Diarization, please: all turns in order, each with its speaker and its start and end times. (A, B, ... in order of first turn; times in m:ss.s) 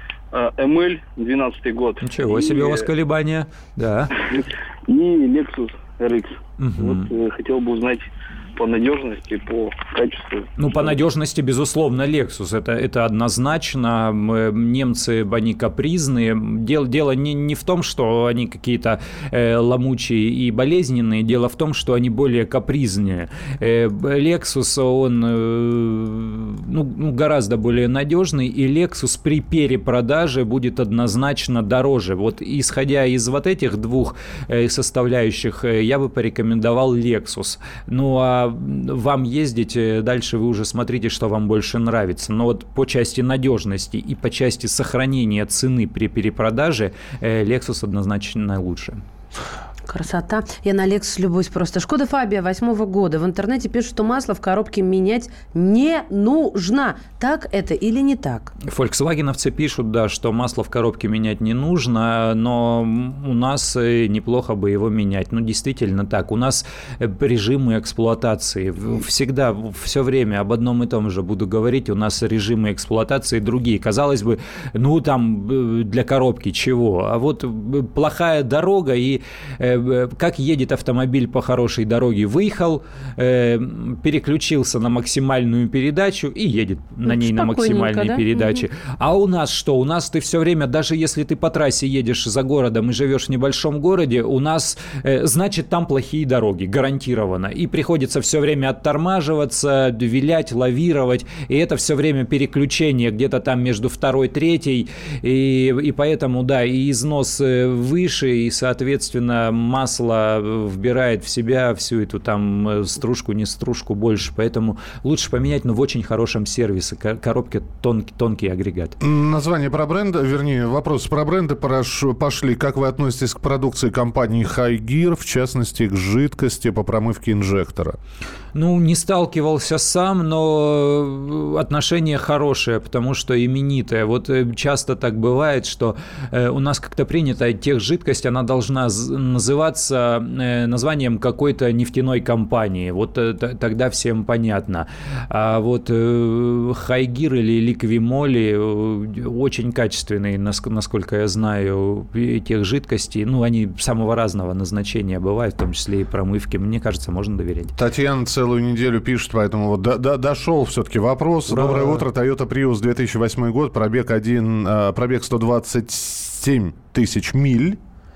0:00.3-0:02.8 A
0:02.0-0:04.1 B
0:04.3-0:10.5 A
0:06.6-0:07.1 B
0:10.6-0:49.0 B
0:49.9-0:58.5 C
0:58.7-1:59.0 B
1:27.0-1:28.6 C
1:59.0-2:08.0 D
2:08.5-2:37.7 B
2:37.7-2:47.8 D
2:41.5-2:42.0 B